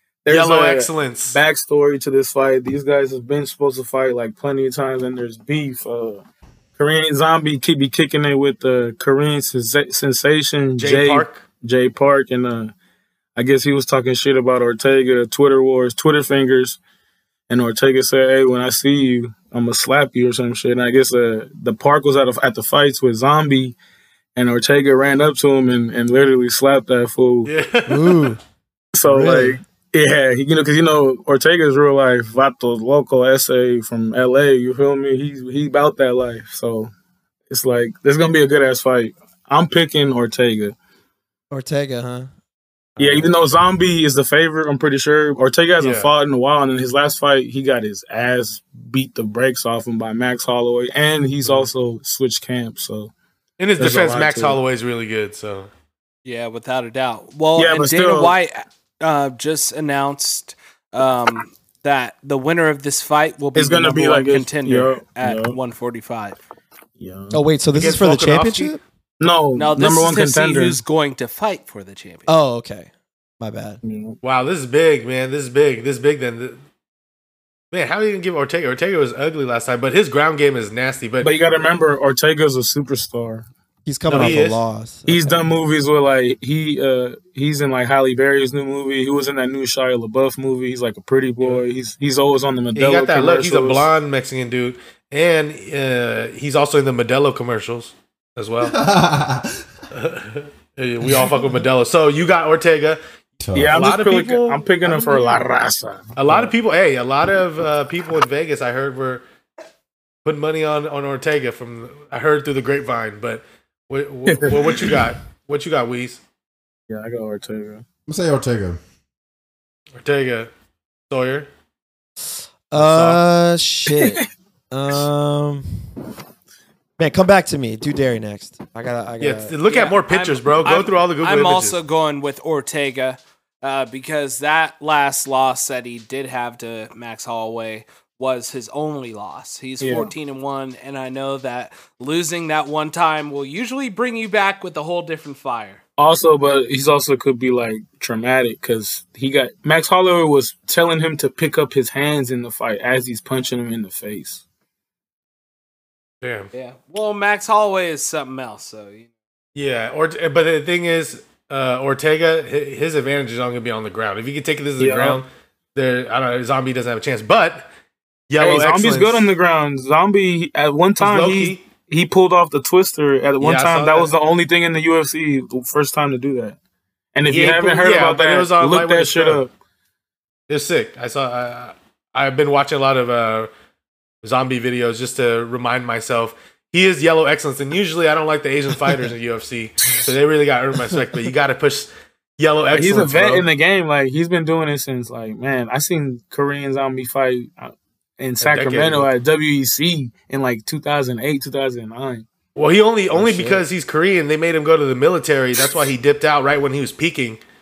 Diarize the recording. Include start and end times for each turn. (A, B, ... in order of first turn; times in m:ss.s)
0:00.2-0:06.2 A
0:00.3-0:01.4 B
0:06.8-0:12.7 A
0:10.8-0:11.4 B
0:13.4-0:16.8 A
0:17.5-0:23.8 A
0:24.3-0:27.5 A
0:27.4-0:28.3 B
0:27.9-0:28.4 C
0:28.9-0:36.9 A
0:29.0-0:29.6 C
0:37.5-0:40.8 A
0:41.5-0:42.3 C
0:43.0-0:43.4 C
0:43.0-0:53.1 A
0:45.8-0:46.1 B
0:53.6-0:55.7 B
0:53.8-0:54.6 A
0:56.2-1:06.4 D
0:57.6-0:58.4 A
1:03.5-1:05.6 A
1:07.0-1:07.4 A
1:07.3-1:08.8 C
1:07.7-1:08.8 B
1:09.2-1:10.8 A
1:09.5-1:12.3 D
1:12.3-1:13.8 C
1:13.8-1:14.2 A
1:14.2-1:16.6 B
1:17.7-1:21.3 B
1:21.2-1:23.5 A
1:23.8-1:25.4 C
1:24.1-1:24.6 B
1:25.1-1:33.9 A
1:32.7-1:38.7 B
1:38.6-1:39.6 E
1:39.9-1:43.0 B
1:41.0-1:41.4 E
1:43.4-1:43.9 E
1:43.5-1:46.5 A
1:43.7-1:45.4 B
1:46.1-1:49.2 B
1:50.2-1:56.2 B
1:54.3-1:55.1 A
1:56.9-1:57.8 A
1:58.1-1:58.8 E
2:00.0-2:00.5 B
2:01.1-2:01.5 B
2:02.7-2:05.9 C
2:02.7-2:03.2 B
2:03.9-2:04.2 A
2:07.0-2:09.5 C
2:09.2-2:11.8 B
2:09.7-2:25.8 D
2:19.8-2:20.1 A
2:26.0-2:34.4 A
2:36.2-2:36.5 B
2:36.5-2:39.1 D
2:39.5-2:47.7 B
2:44.8-2:45.2 A
2:48.3-2:49.3 B
2:48.4-2:56.6 A
2:51.0-2:51.6 B
2:53.4-2:54.1 B
2:57.1-2:59.5 A
2:57.3-2:59.4 B
3:00.5-3:03.5 B
3:04.2-3:13.4 B
3:12.7-3:22.3 A
3:18.4-3:19.1 B
3:22.5-3:27.4 B
3:23.1-3:23.6 A